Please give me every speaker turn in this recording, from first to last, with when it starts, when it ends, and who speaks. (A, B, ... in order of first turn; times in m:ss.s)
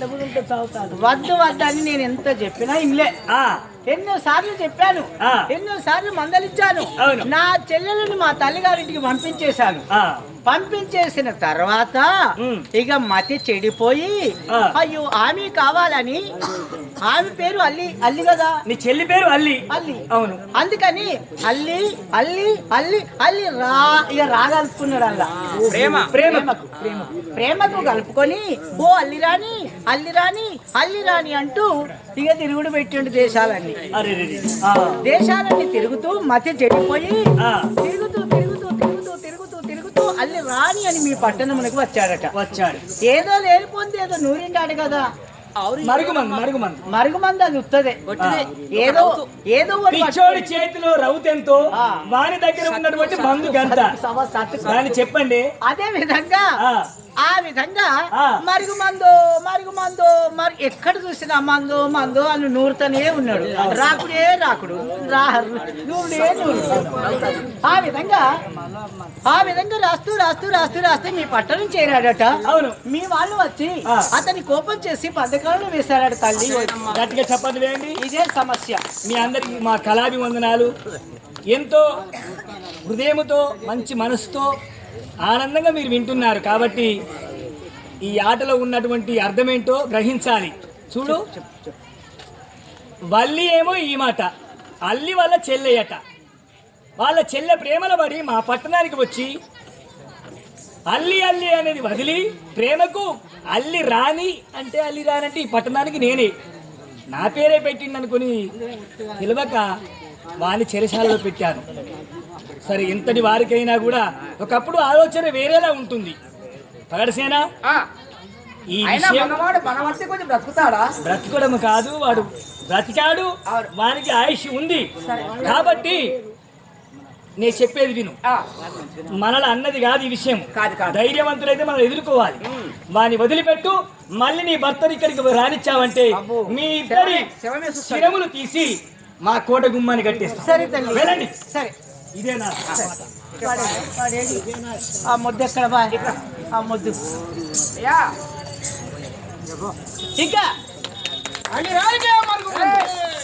0:00.2-0:03.1 A
0:03.3-0:03.6 B
0:03.9-0:09.8 A
0:07.0-0:07.3 B
0:09.9-0:10.2 B
0:10.4-0:12.1 A
0:12.4-0:12.7 B
0:12.7-0:16.2 A
0:17.0-0:18.6 A
0:18.7-0:20.4 B
0:19.7-0:20.0 A
0:20.6-0:25.3 A
0:25.6-0:26.1 C
0:26.0-0:27.0 B
0:26.1-0:33.8 A
0:33.9-0:35.0 B
0:35.0-0:37.2 A
0:37.4-0:37.7 B
0:37.8-0:42.3 A
0:42.3-0:42.8 B
0:43.0-0:45.0 A
0:45.6-0:46.5 C
0:45.8-0:46.8 B
0:46.9-0:48.0 A
0:48.1-0:49.2 C
0:48.2-0:48.5 B
0:48.7-0:50.5 A
0:49.9-0:53.9 B
0:51.7-0:52.0 A
0:52.6-0:53.6 C
0:53.4-0:55.0 A
0:54.6-0:55.4 B
0:55.6-0:56.4 A
0:56.6-0:56.8 B
0:57.2-1:08.2 A
1:03.6-1:03.9 B
1:07.1-1:07.4 C
1:09.3-1:16.8 A
1:12.4-1:12.8 B
1:16.4-1:17.0 C
1:16.9-1:18.0 B
1:18.0-1:18.8 A
1:19.0-1:20.7 B
1:21.5-1:21.8 B
1:22.8-1:24.5 B
1:25.2-1:26.9 B
1:28.0-1:31.2 B
1:31.1-1:31.7 C
1:33.1-1:34.3 B
1:34.8-1:36.0 B
1:37.0-1:39.3 B
1:40.9-1:46.3 B
1:47.1-1:48.4 B
1:49.2-1:49.7 B
1:50.4-1:51.6 B
1:52.6-1:56.2 B
1:56.9-1:57.4 B
1:58.7-1:59.4 B
1:58.8-2:00.9 C
2:01.0-2:04.9 B
2:05.0-2:05.5 C
2:05.4-2:06.1 B
2:07.4-2:08.2 B
2:08.2-2:08.7 C
2:09.2-2:17.3 B
2:10.5-2:11.0 C
2:12.4-2:12.8 C
2:16.2-2:18.2 C
2:17.9-2:21.3 B
2:20.4-2:21.7 A
2:22.1-2:23.0 B
2:22.7-2:23.8 C
2:23.4-2:24.4 A
2:25.1-2:27.0 A
2:25.9-2:26.2 C
2:27.8-2:28.1 C
2:30.2-2:30.5 A
2:31.5-2:32.9 C